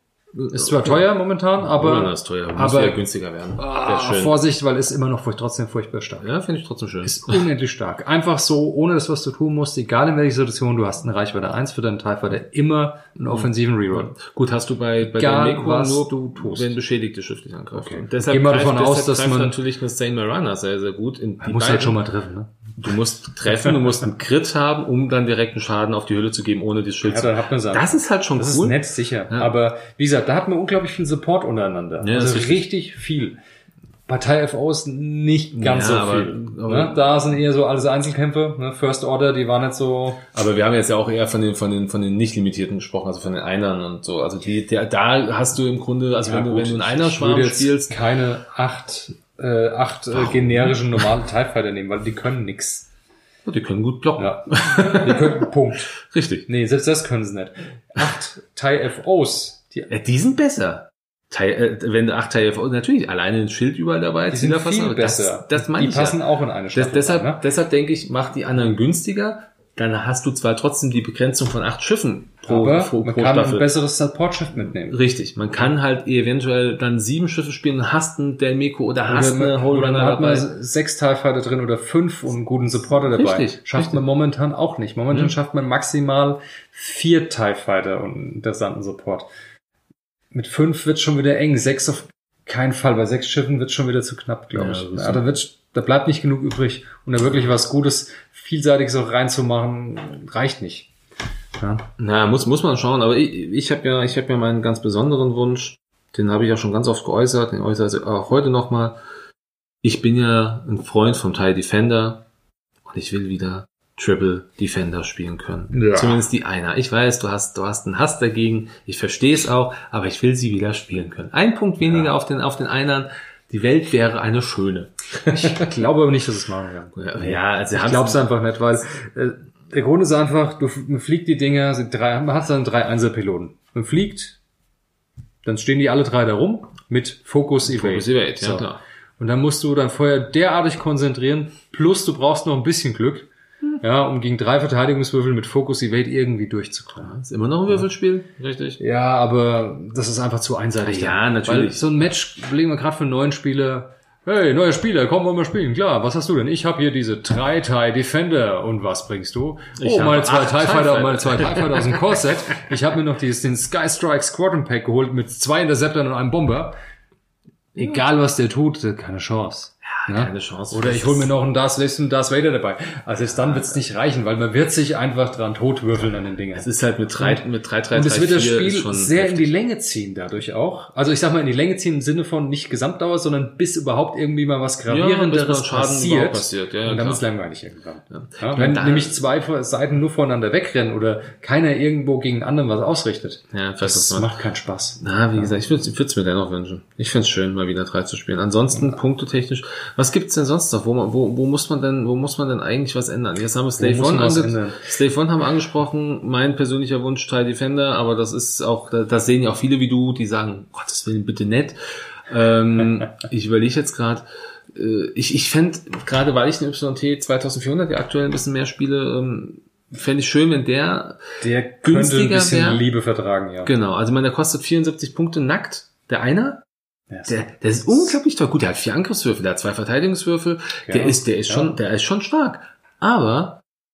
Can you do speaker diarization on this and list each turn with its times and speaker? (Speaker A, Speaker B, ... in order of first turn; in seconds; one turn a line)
Speaker A: 0.3-1.1
Speaker B: 0.5-3.0
Speaker A: 1.6-4.3
Speaker B: 3.5-6.3
Speaker A: 6.2-7.4
Speaker B: 7.0-14.1
Speaker A: 13.3-22.0
Speaker B: 15.1-16.8
Speaker B: 17.8-19.6
Speaker B: 21.4-22.6
Speaker A: 22.8-29.5
Speaker B: 27.0-33.4
Speaker A: 32.0-32.6
Speaker B: 34.1-40.2
Speaker A: 35.5-37.2
Speaker A: 40.3-48.0
Speaker B: 46.2-52.9
Speaker A: 50.1-51.0
Speaker A: 53.5-56.5
Speaker B: 54.2-55.9
Speaker B: 56.5-59.9
Speaker A: 59.9-66.2
Speaker B: 64.3-67.4
Speaker A: 66.7-73.7
Speaker B: 72.5-75.0
Speaker A: 74.7-80.5
Speaker B: 79.1-89.3
Speaker A: 83.1-84.0
Speaker B: 90.3-100.9
Speaker A: 94.5-95.3
Speaker B: 101.6-101.8
Speaker A: 102.0-109.0
Speaker A: 109.8-112.2
Speaker A: 112.9-125.7
Speaker B: 115.7-116.2
Speaker B: 125.3-134.4
Speaker A: 127.0-128.3
Speaker B: 135.4-138.7
Speaker A: 137.6-138.8
Speaker B: 139.2-143.3
Speaker B: 143.8-147.2
Speaker A: 147.0-148.8
Speaker B: 148.8-166.7
Speaker A: 150.8-151.9
Speaker A: 159.8-162.2
Speaker B: 167.7-195.5
Speaker A: 169.8-171.3
Speaker A: 173.3-173.8
Speaker A: 176.5-179.5
Speaker A: 184.9-187.2
Speaker A: 188.1-189.2
Speaker A: 193.5-194.3
Speaker A: 195.0-211.8
Speaker B: 203.8-204.8
Speaker A: 212.3-221.2
Speaker B: 221.4-223.7
Speaker A: 221.8-222.8
Speaker A: 223.6-226.6
Speaker B: 227.1-227.4
Speaker A: 227.2-233.6
Speaker B: 230.9-231.8